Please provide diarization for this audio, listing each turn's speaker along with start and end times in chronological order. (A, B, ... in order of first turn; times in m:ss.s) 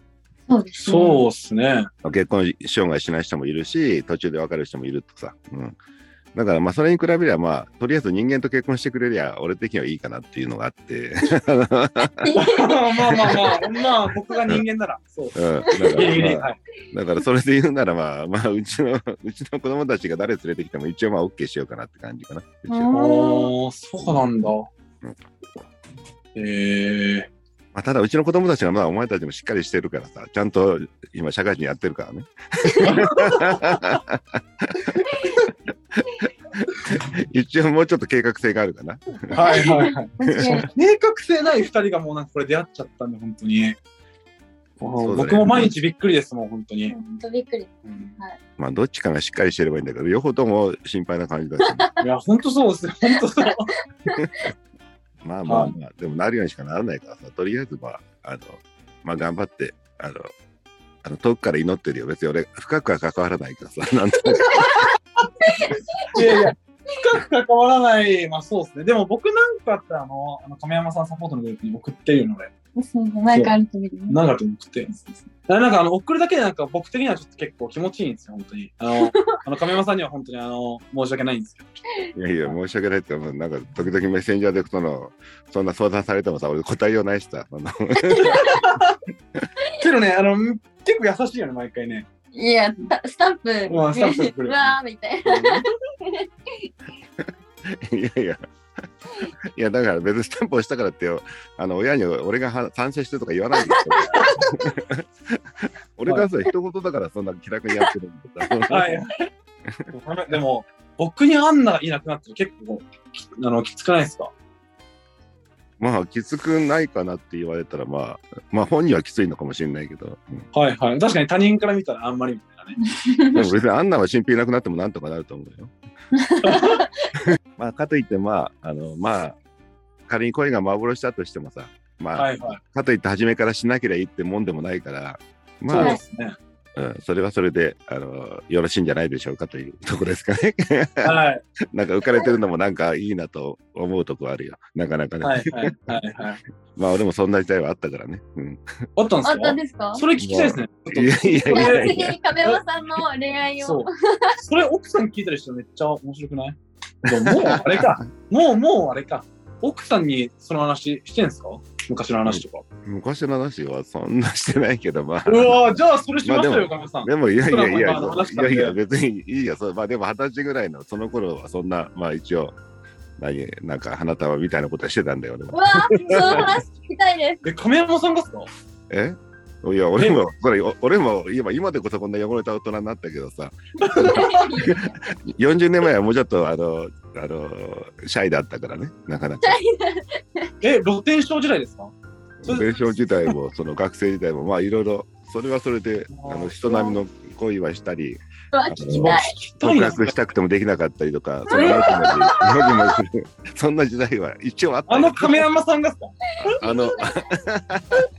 0:00.5-0:01.2 A
0:00.8-0:01.9 B
0:02.0-0:05.8 C
0:06.3-0:12.2 C
0:12.2-0:13.6 A
0:12.3-0:15.4 B
0:15.3-0:22.9 C
0:15.7-0:16.2 A
0:15.9-0:16.6 B
0:22.7-0:23.5 A
0:22.9-0:24.7 B
0:26.3-0:27.3 B
0:27.7-0:34.2 C
0:32.8-0:33.6 B
0:36.8-0:39.6 C
0:39.3-0:40.1 B
0:39.3-0:40.7 A
0:40.3-0:40.6 C
0:40.7-0:43.8 B
0:44.8-0:46.9 B
0:45.0-0:45.7 C
0:46.9-0:48.4 A
0:47.8-0:48.2 B
0:48.6-0:51.9 C
0:51.6-0:51.9 A
0:52.0-0:53.7 B
0:54.2-0:54.5 C
0:55.2-1:00.3 C
0:55.4-0:55.7 B
1:01.0-1:04.8 C
1:04.4-1:04.8 A
1:05.4-1:06.2 A
1:06.1-1:12.5 B
1:12.8-1:14.2 A
1:14.1-1:21.8 B
1:22.1-1:28.4 C
1:28.2-1:29.0 B
1:29.8-1:32.0 B
1:32.3-1:36.7 A
1:33.7-1:35.6 B
1:37.2-1:38.4 C
1:39.5-1:45.4 C
1:44.0-1:44.5 A
1:46.0-1:49.0 C
1:48.7-1:49.2 B
1:49.9-1:54.3 B
1:55.8-2:00.4 C
2:00.5-2:02.8 B
2:03.0-2:03.4 A
2:03.3-2:05.7 C
2:06.1-2:07.2 A
2:06.4-2:06.8 B
2:07.6-2:09.4 C
2:10.1-2:16.0 C
2:12.2-2:12.6 B
2:15.7-2:16.4 B
2:15.7-2:16.0 A
2:16.8-2:21.1 C
2:21.0-2:21.4 B
2:21.7-2:25.6 C
2:25.2-2:26.4 B
2:26.8-2:28.6 C
2:29.0-2:32.6 B
2:29.2-2:30.0 A
2:30.2-2:32.2 C
2:31.4-2:34.4 A
2:33.6-2:33.9 B
2:34.4-2:42.6 B
2:37.1-2:38.0 C
2:42.2-2:52.6 C
2:45.2-2:48.8 B
2:53.2-2:56.5 C
2:55.5-2:57.4 A
2:56.2-2:56.5 B
2:57.4-2:58.5 B
2:58.9-3:09.6 C
3:00.0-3:00.2 B
3:03.8-3:04.6 B
3:04.0-3:05.0 A
3:09.4-3:10.5 A
3:10.6-3:11.9 B
3:12.4-3:25.4 C
3:12.4-3:13.4 B
3:16.1-3:16.6 B
3:16.7-3:17.0 A
3:18.5-3:19.3 A
3:18.9-3:20.2 B
3:21.5-3:22.9 A
3:21.5-3:21.9 B
3:24.8-3:26.2 B
3:26.4-3:28.0 C
3:26.5-3:27.2 A